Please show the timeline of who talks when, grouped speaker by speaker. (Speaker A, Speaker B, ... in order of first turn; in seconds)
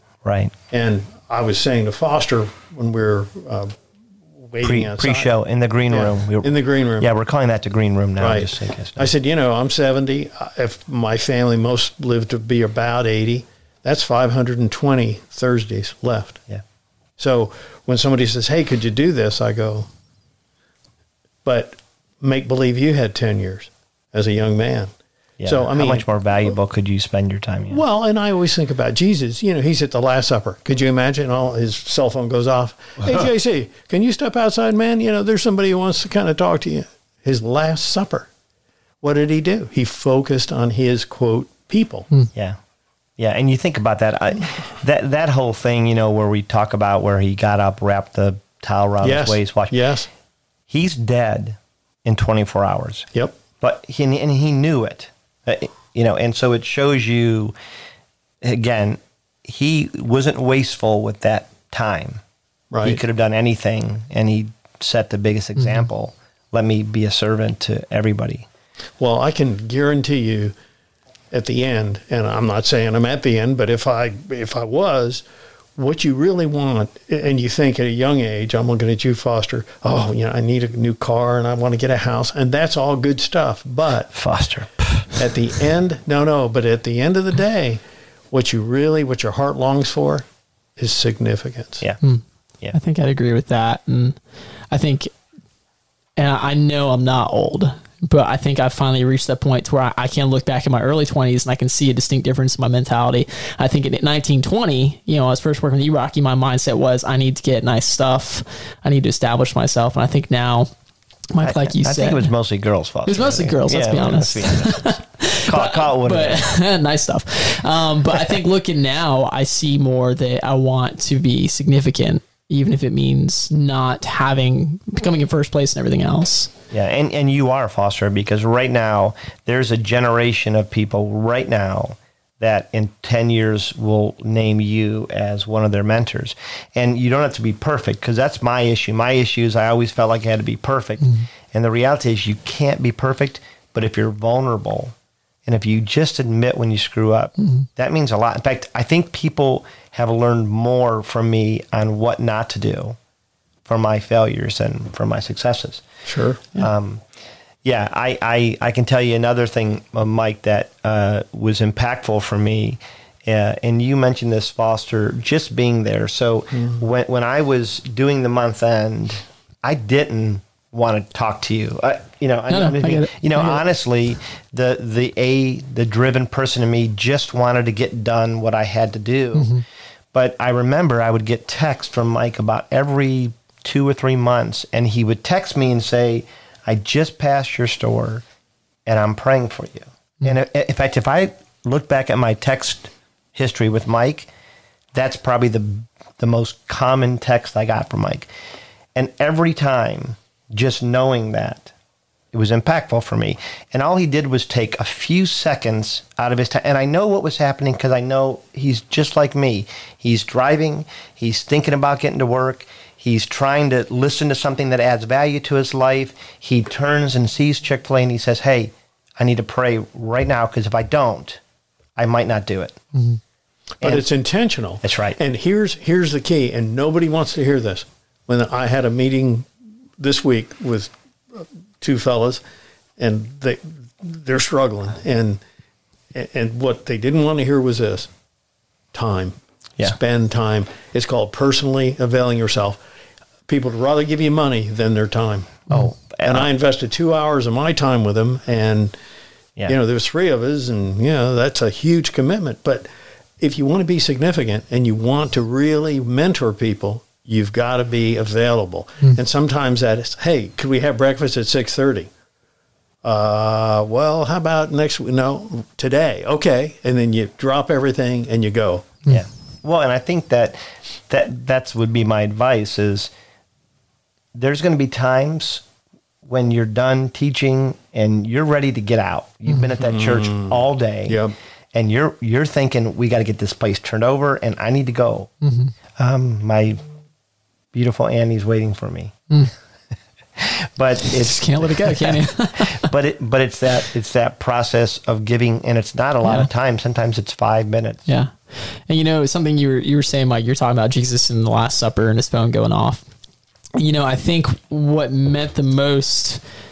Speaker A: 0.2-0.5, 4.6-9.1, 25.4-27.8, 42.3-42.6, 43.2-49.8, 50.7-53.1, 53.6-57.5, 58.4-62.2, 62.8-68.5, 84.1-85.2, 111.4-116.4, 126.7-144.9, 145.5-153.0, 153.7-155.8, 156.6-157.0, 157.7-179.6, 180.1-188.2, 188.9-194.3, 194.9-198.3, 198.9-201.7, 202.3-221.4, 222.0-222.8, 224.8-225.2, 245.7-246.5, 269.1-273.1, 274.4-275.6, 276.2-281.2, 281.7-285.3, 286.0-286.8, 287.7-289.3, 290.4-298.0
Speaker B: 0.7-3.8, 4.4-5.3, 5.9-7.1, 8.2-16.4, 17.2-19.9, 21.4-24.9, 25.4-26.1, 27.7-38.3, 39.0-42.1, 49.0-50.1, 62.7-63.0, 69.0-70.5, 71.3-75.2, 75.8-84.1, 85.2-90.3, 90.8-91.8, 156.1-156.5, 223.8-232.4, 233.0-235.4, 236.1-238.1, 238.9-242.8, 243.5-249.0, 249.7-252.9, 253.4-262.1, 263.0-269.0, 279.6-281.4
Speaker C: 92.0-94.2, 94.7-95.1, 96.2-110.7, 111.3-112.3, 113.1-126.5, 141.0-141.3, 147.4-147.7, 172.5-173.6, 179.3-179.6, 222.9-223.2, 285.4-285.7, 291.1-292.9, 298.1-303.1, 303.8-306.4